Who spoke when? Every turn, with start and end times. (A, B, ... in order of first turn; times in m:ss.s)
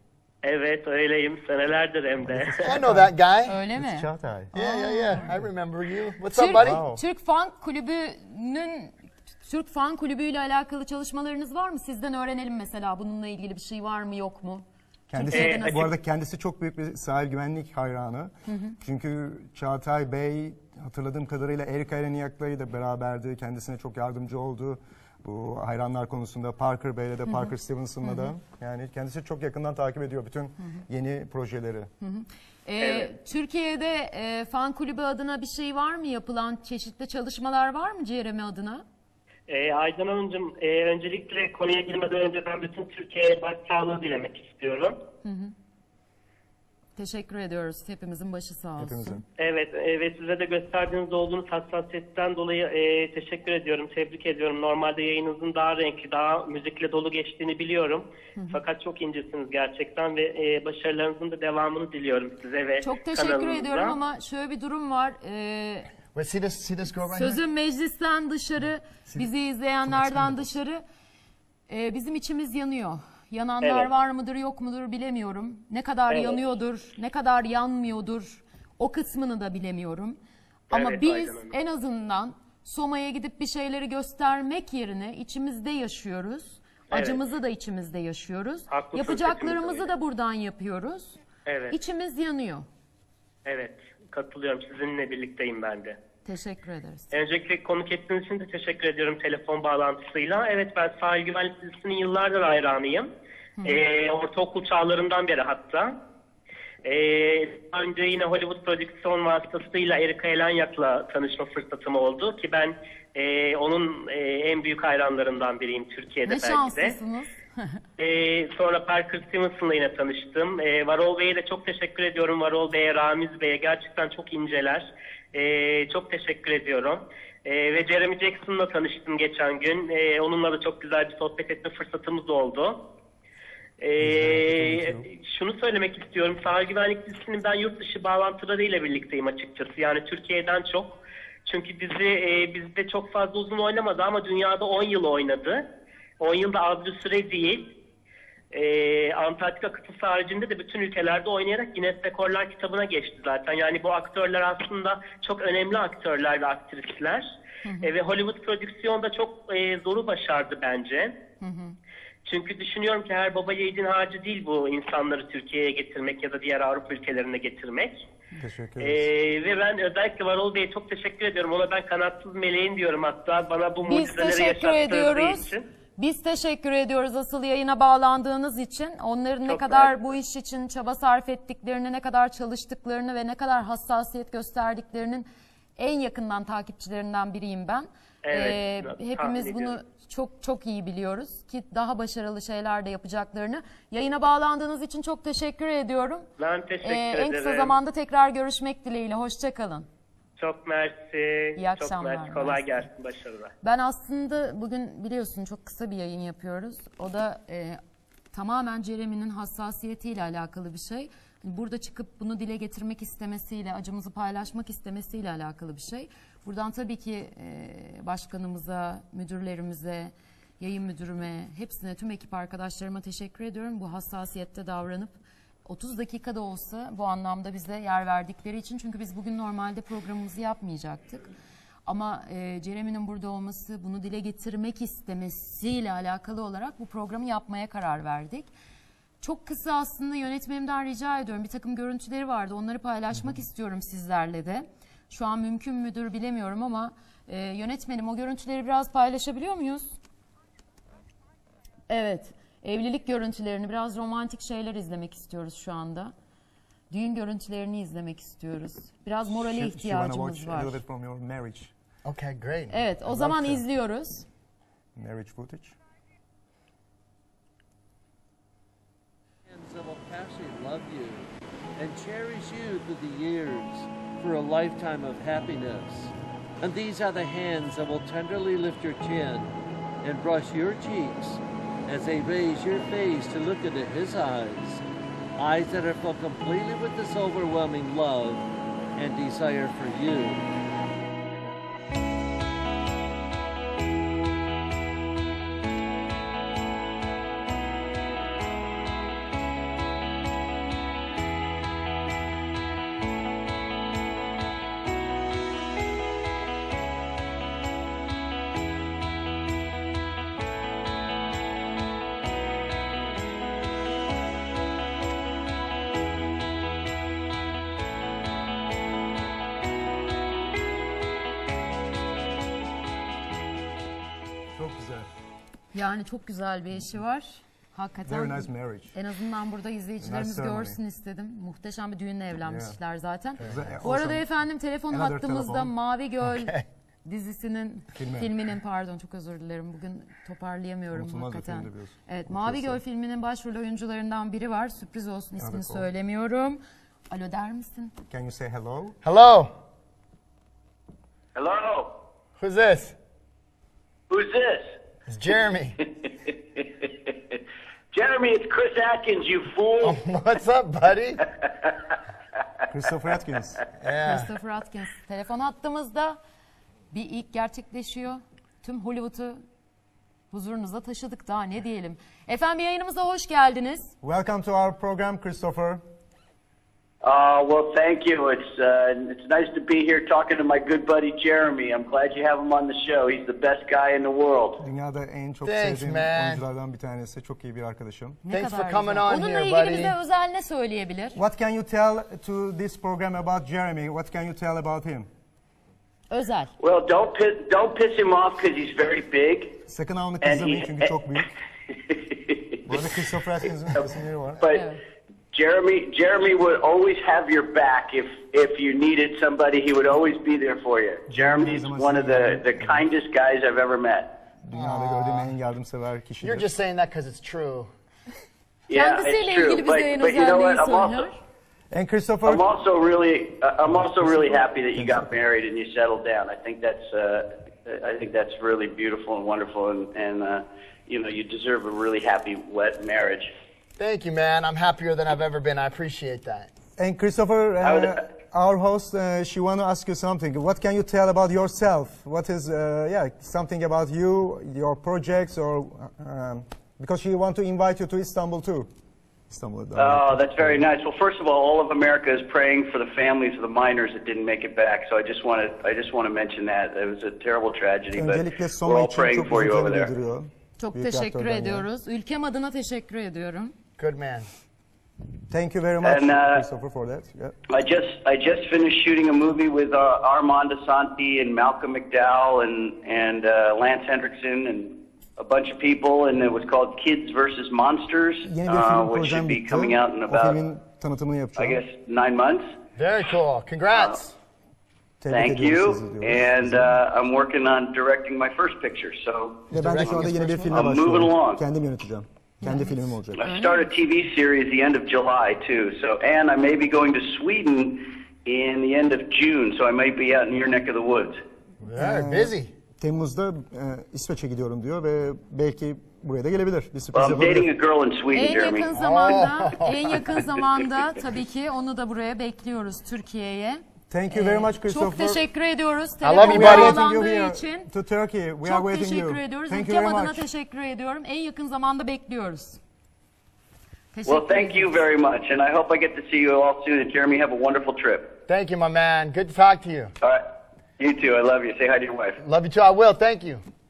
0:00.4-0:02.7 A
0:02.2-0:03.1 B
0:02.6-0:03.6 C
0:03.4-0:05.2 D
0:03.7-0:04.5 B
0:04.5-0:06.8 C
0:06.3-0:08.9 D
0:06.5-0:07.0 B
0:09.4-0:15.9 D
0:15.1-0:31.9 B
0:15.3-0:15.9 A
0:18.5-0:18.8 D
0:28.0-0:28.3 D
0:32.0-0:38.8 D
0:32.8-0:33.1 A
0:39.5-0:45.0 A
0:45.2-0:45.5 D
0:47.0-0:49.2 D
0:48.8-0:49.2 B
0:49.4-1:04.0 A
1:02.8-1:05.9 D
1:06.1-1:07.4 C
1:07.1-1:10.8 D
1:09.9-1:10.4 C
1:11.7-1:20.2 D
1:13.6-1:13.9 A
1:16.1-1:16.4 A
1:20.7-1:21.5 A
1:20.7-1:31.2 D
1:26.9-1:27.2 A
1:28.7-1:29.9 A
1:31.4-1:31.8 A
1:31.7-1:32.6 D
1:33.4-1:36.0 A
1:36.2-1:37.1 D
1:37.1-1:43.1 A
1:43.6-1:46.0 A
1:46.8-1:57.0 A
1:56.2-1:57.8 D
1:58.0-2:12.8 A
2:13.8-2:20.9 A
2:14.0-2:15.1 B
2:21.4-2:25.6 A
2:26.2-2:27.7 A
2:28.5-2:37.3 A
2:37.6-2:37.9 D
2:37.8-2:41.1 A
2:41.4-2:41.8 D
2:42.2-2:48.0 A
2:48.4-2:49.1 B
2:48.8-2:55.6 A
2:53.8-3:16.3 D
2:59.5-3:00.0 A
3:08.2-3:09.8 A
3:16.4-3:17.8 A
3:16.8-3:19.9 D
3:20.4-3:23.5 A
3:21.6-3:22.8 D
3:23.6-3:27.8 D
3:28.3-3:45.1 D
3:45.6-3:51.3 D
3:51.8-3:58.5 D
3:59.2-4:10.0 D
4:11.9-4:16.1 D
4:16.9-4:20.8 D
4:19.3-4:21.7 B
4:22.0-4:22.8 C
4:22.7-4:24.2 D
4:23.1-4:23.6 B
4:24.9-4:25.8 B
4:29.4-4:44.8 E
4:45.4-4:50.5 E
5:24.5-5:25.1 B
5:25.7-5:48.0 D
5:28.0-5:28.9 B
5:30.0-5:30.8 B
5:32.4-5:32.8 B
5:33.4-5:34.3 B
5:33.4-5:33.8 C
5:34.9-5:35.7 B
5:36.4-5:36.6 C
5:37.9-5:38.3 B
5:40.9-5:42.8 B
5:45.4-5:45.9 B
5:48.1-5:49.0 B
5:49.0-5:49.5 C
5:51.3-5:52.0 F
5:52.4-5:52.9 C
5:54.1-5:54.8 F
5:55.1-5:55.8 C
5:57.9-6:00.0 F
5:59.8-6:01.2 C
6:02.7-6:03.6 B
6:03.8-6:04.3 C
6:04.0-6:06.2 D
6:06.9-6:09.4 D
6:10.3-6:13.9 D
6:14.0-6:15.8 B
6:17.0-6:24.6 F
6:24.6-6:28.2 B
6:25.4-6:26.4 C
6:28.2-6:31.2 D
6:28.3-6:29.9 C
6:31.1-6:35.1 B
6:36.1-6:36.5 D
6:36.6-6:39.6 F
6:39.7-6:41.3 B
6:40.2-6:41.2 F
6:41.9-6:43.0 F
6:42.6-6:44.4 B
6:44.4-6:44.7 F
6:44.5-6:44.8 D
6:45.3-6:54.1 F
6:51.1-6:52.9 B
6:54.4-6:56.5 B
6:54.5-6:55.3 C
6:56.2-6:57.7 C
6:58.7-7:01.1 F
6:58.7-7:01.1 D
7:01.7-7:02.4 B
7:02.2-7:13.3 F
7:03.7-7:05.1 B
7:13.8-7:16.5 C
7:16.8-7:28.7 B
7:17.6-7:18.0 F
7:29.3-7:30.6 B
7:29.8-7:39.9 F
7:37.9-7:41.7 B
7:40.6-7:43.5 D
7:43.8-7:44.3 C
7:45.3-7:47.4 B
7:45.8-7:46.5 F
7:47.5-8:00.4 F
7:58.2-8:01.6 B
8:01.4-8:02.5 F
8:02.8-8:04.1 C
8:05.0-8:06.8 B
8:05.1-8:09.9 F
8:09.5-8:10.8 C
8:09.5-8:13.2 B
8:10.4-8:11.4 F
8:12.4-8:13.7 D
8:13.2-8:21.2 F
8:21.6-8:22.5 C
8:21.7-8:27.5 B
8:26.9-8:28.7 F
8:28.1-8:37.7 D
8:28.8-8:29.9 C
8:33.9-8:35.2 B
8:36.0-8:36.8 C
8:36.2-8:40.2 B
8:38.4-8:42.6 D
8:43.9-8:44.8 D
8:44.0-8:48.2 F
8:48.3-8:49.9 C
8:50.0-8:52.2 F
8:52.2-8:53.4 C